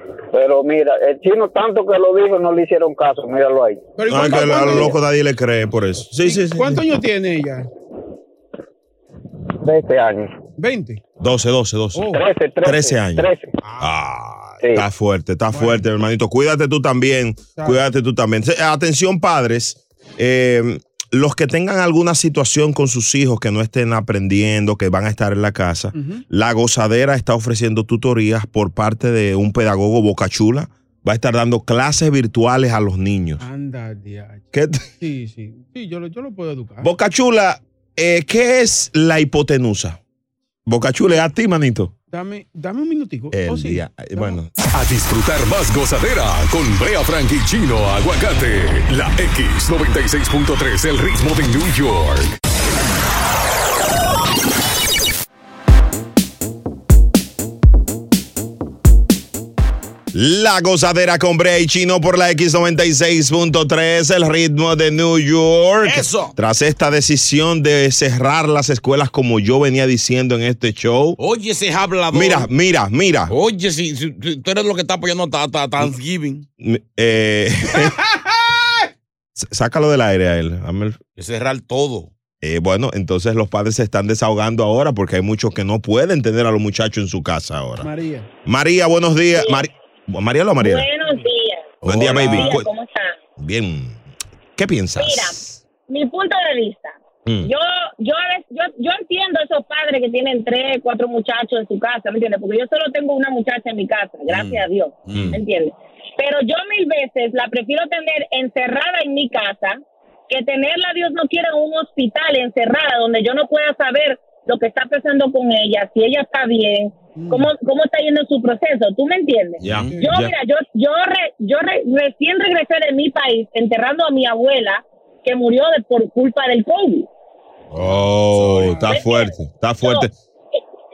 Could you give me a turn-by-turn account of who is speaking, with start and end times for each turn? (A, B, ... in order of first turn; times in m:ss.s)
0:00.3-0:04.9 A
0:04.0-0:05.0 B
0:04.1-0:06.8 C
0:06.2-0:07.7 B
0:09.6-0:10.3 A
0:10.6-0:11.0 B
0:11.2-0:33.4 C
0:12.0-0:12.2 B
0:12.1-0:13.5 A
0:13.6-0:13.9 B
0:15.5-0:15.8 B
0:25.9-0:26.2 B
0:33.4-0:36.9 B
0:34.5-0:34.9 C
0:36.8-0:40.0 C
0:40.7-0:41.9 C
0:42.1-0:44.4 B
0:43.3-0:44.5 C
0:44.7-0:52.4 D
1:00.1-1:11.2 C
1:05.8-1:06.3 E
1:11.2-1:12.5 E
1:12.1-1:13.3 C
1:13.3-1:16.5 E
1:16.6-1:18.0 C
1:19.4-1:21.0 C
1:21.2-1:22.1 E
1:22.4-1:27.9 C
1:27.8-1:28.3 B
1:28.4-1:30.9 C
1:30.6-1:33.2 F
1:31.8-1:32.6 E
1:31.8-1:32.7 C
1:33.4-1:34.0 C
1:34.6-1:35.6 C
1:35.0-1:35.4 F
1:35.9-2:07.1 F
1:37.3-1:37.5 C
1:45.1-1:45.4 E
1:45.1-1:45.4 C
1:57.2-1:57.5 B
1:59.6-1:59.9 E
1:59.6-2:00.4 C
2:07.7-2:08.9 E
2:07.8-2:10.1 C
2:08.9-2:10.1 F